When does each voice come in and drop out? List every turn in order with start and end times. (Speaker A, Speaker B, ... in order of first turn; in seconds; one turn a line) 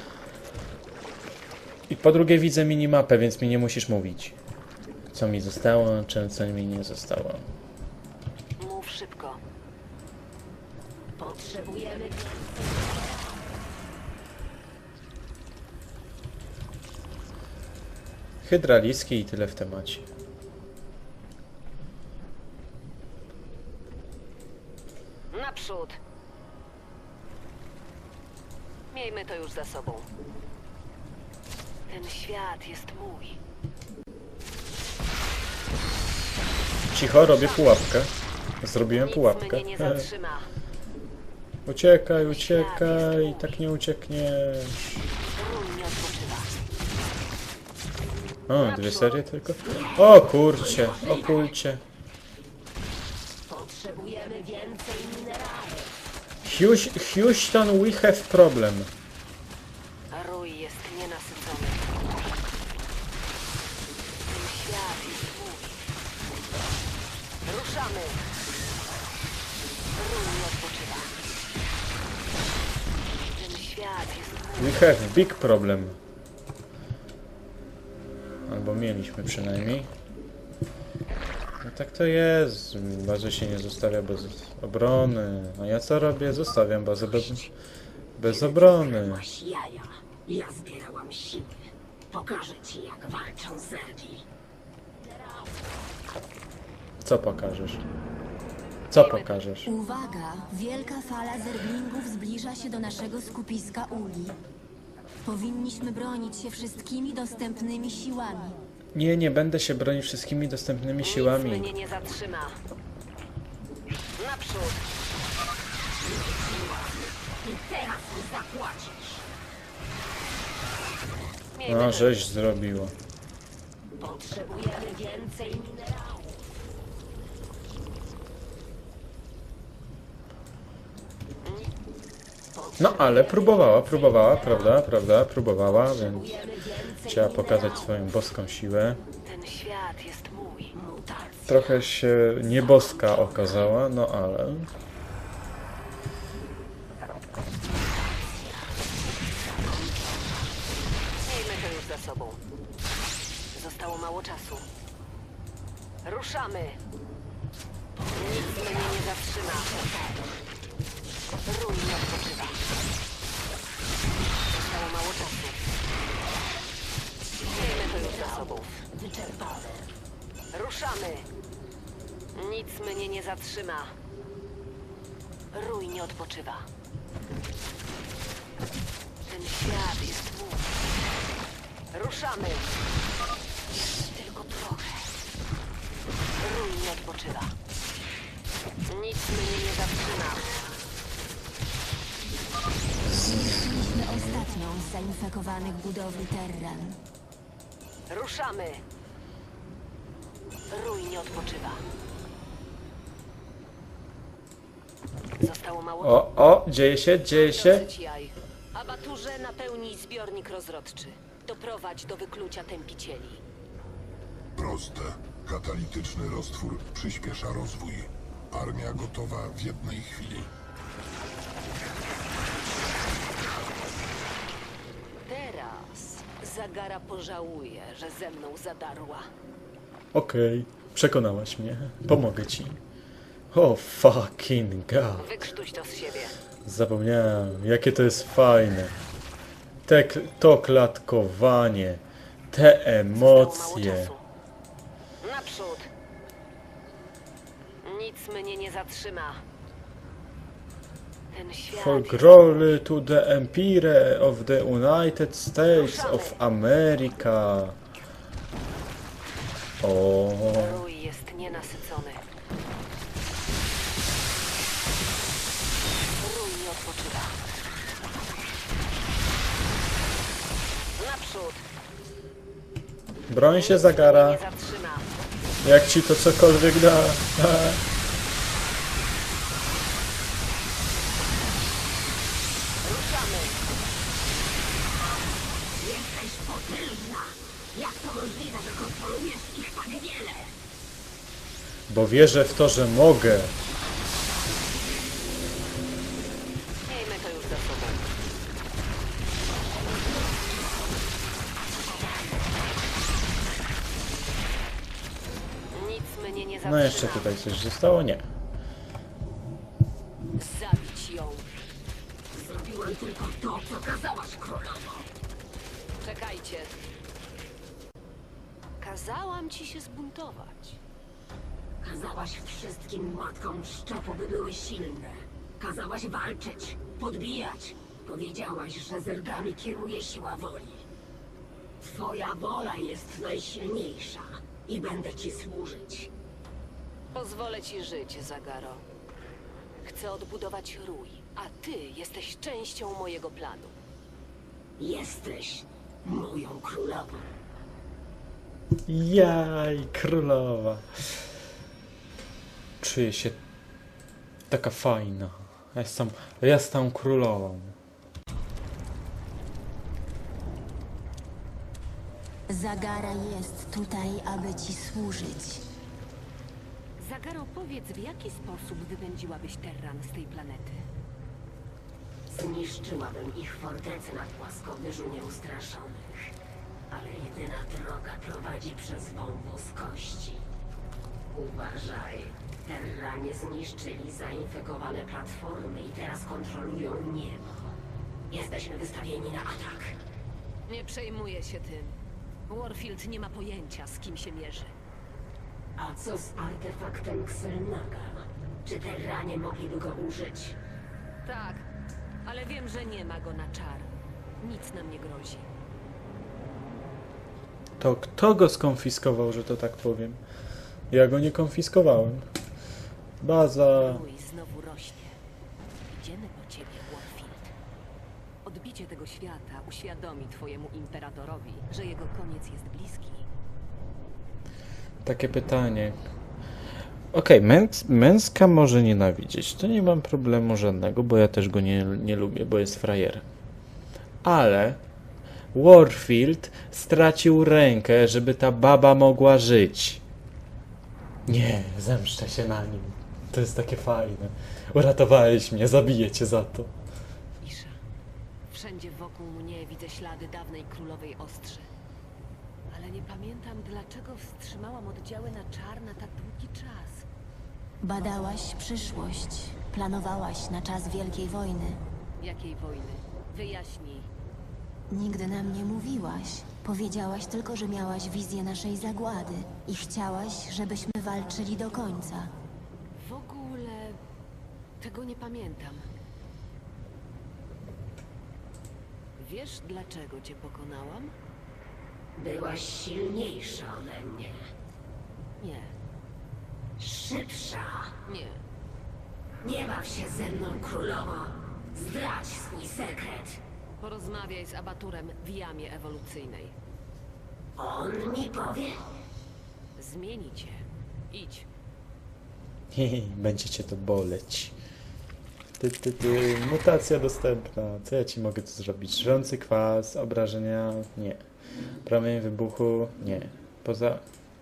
Speaker A: 1.9-4.4
Speaker A: 5.1-7.5
Speaker B: 8.6-9.4
Speaker C: 11.2-13.4
Speaker A: 18.4-20.1
Speaker B: 25.3-26.0
Speaker B: 28.9-30.1
Speaker B: 31.9-33.4
Speaker A: 36.9-40.1
Speaker B: 37.3-37.8
Speaker B: 38.9-40.5
Speaker A: 41.7-44.9
Speaker B: 42.3-43.6
Speaker B: 45.4-46.5
Speaker A: 48.5-51.8
Speaker B: 48.6-49.2
Speaker C: 49.6-51.5
Speaker C: 53.5-55.9
Speaker A: 56.4-58.9
Speaker B: 60.1-62.1
Speaker B: 64.3-65.8
Speaker B: 67.5-68.2
Speaker B: 70.0-71.1
Speaker B: 73.4-74.7
Speaker A: 74.6-76.0
Speaker A: 78.5-79.9
Speaker A: 81.6-87.5
Speaker A: 88.2-89.3
Speaker C: 88.2-94.3
Speaker C: 95.0-95.5
Speaker A: 97.0-97.8
Speaker A: 98.9-99.7
Speaker B: 98.9-99.4
Speaker D: 99.7-104.4
Speaker D: 105.2-108.6
Speaker A: 108.9-111.7
Speaker B: 111.0-112.6
Speaker B: 114.2-114.8
Speaker C: 116.0-119.3
Speaker B: 121.6-122.2
Speaker A: 121.7-123.0
Speaker C: 124.0-126.5
Speaker B: 131.4-131.7
Speaker C: 132.5-134.7
Speaker A: 132.8-136.3
Speaker C: 135.7-138.0
Speaker A: 137.1-139.0
Speaker B: 139.2-140.7
Speaker C: 140.7-141.8
Speaker A: 141.5-144.7
Speaker C: 142.5-143.6
Speaker C: 147.6-150.6
Speaker B: 151.2-152.4
Speaker B: 153.5-154.7
Speaker B: 156.0-156.8
Speaker C: 158.0-160.4
Speaker B: 158.2-159.7
Speaker B: 161.5-162.6
Speaker B: 164.5-165.6
Speaker C: 167.5-169.9
Speaker B: 167.5-168.7
Speaker B: 170.5-171.3
Speaker B: 172.3-173.9
Speaker B: 175.5-176.7
Speaker B: 179.3-180.7
Speaker B: 181.9-182.7
Speaker B: 183.7-185.1
Speaker B: 186.4-187.5
Speaker B: 188.9-190.7
Speaker A: 193.1-194.5
Speaker D: 193.2-197.0
Speaker B: 198.1-198.8
Speaker B: 200.7-201.8
Speaker B: 205.4-206.3
Speaker A: 206.0-207.9
Speaker B: 207.3-213.4
Speaker E: 214.6-220.5
Speaker B: 225.3-229.3
Speaker A: 230.1-232.8
Speaker A: 233.5-235.5
Speaker B: 235.2-236.4
Speaker A: 236.7-239.0
Speaker A: 239.8-244.2
Speaker B: 243.2-244.2
Speaker B: 245.2-245.9
Speaker B: 247.8-249.4
Speaker B: 251.3-252.7
Speaker A: 251.7-257.8
Speaker B: 255.7-256.4
Speaker A: 259.8-260.9
Speaker B: 260.5-262.2
Speaker B: 266.2-267.4
Speaker B: 271.0-271.6
Speaker A: 273.3-274.4
Speaker B: 273.5-275.1
Speaker A: 275.6-277.8
Speaker B: 282.8-283.6
Speaker C: 285.8-290.5
Speaker A: 291.9-293.5
Speaker B: 296.9-298.1
Speaker C: 299.5-302.8
Speaker B: 305.7-307.3
Speaker A: 306.6-308.3
Speaker B: 310.4-311.5
Speaker C: 312.3-315.1
Speaker B: 316.0-316.8
Speaker B: 318.8-320.8
Speaker C: 321.8-330.9
Speaker C: 331.8-336.1
Speaker B: 337.1-338.8
Speaker B: 339.8-343.8
Speaker C: 344.8-347.3
Speaker A: 348.9-351.1
Speaker A: 352.8-353.4
Speaker A: 354.5-357.8
Speaker D: 362.5-365.6
Speaker B: 367.0-370.8
Speaker C: 372.3-376.3
Speaker C: 376.9-380.4
Speaker C: 381.3-387.8
Speaker C: 388.3-390.0
Speaker B: 390.7-391.9
Speaker B: 392.5-394.7
Speaker C: 395.8-400.6
Speaker B: 401.2-401.7
Speaker B: 402.2-403.9
Speaker B: 404.4-405.5
Speaker A: 407.8-410.2
Speaker A: 410.9-412.3
Speaker A: 413.2-414.0
Speaker B: 413.7-415.2
Speaker B: 415.9-417.5
Speaker B: 418.4-423.2
Speaker A: 425.0-426.0
Speaker A: 427.1-433.2
Speaker A: 434.2-434.8
Speaker A: 435.5-440.0
Speaker A: 441.3-446.7
Speaker B: 447.4-447.8
Speaker B: 448.5-451.7
Speaker B: 452.7-457.1
Speaker D: 457.8-461.8
Speaker B: 462.2-464.1
Speaker D: 464.9-472.3
Speaker B: 473.0-474.0
Speaker B: 474.8-475.8
Speaker B: 479.2-481.1
Speaker C: 482.2-484.4
Speaker B: 485.4-485.7
Speaker C: 486.8-487.9
Speaker B: 488.1-488.4
Speaker C: 489.4-493.4
Speaker B: 493.8-496.6
Speaker C: 497.6-498.8
Speaker B: 499.8-501.5
Speaker A: 502.7-504.6
Speaker A: 505.6-511.2
Speaker A: 511.9-514.0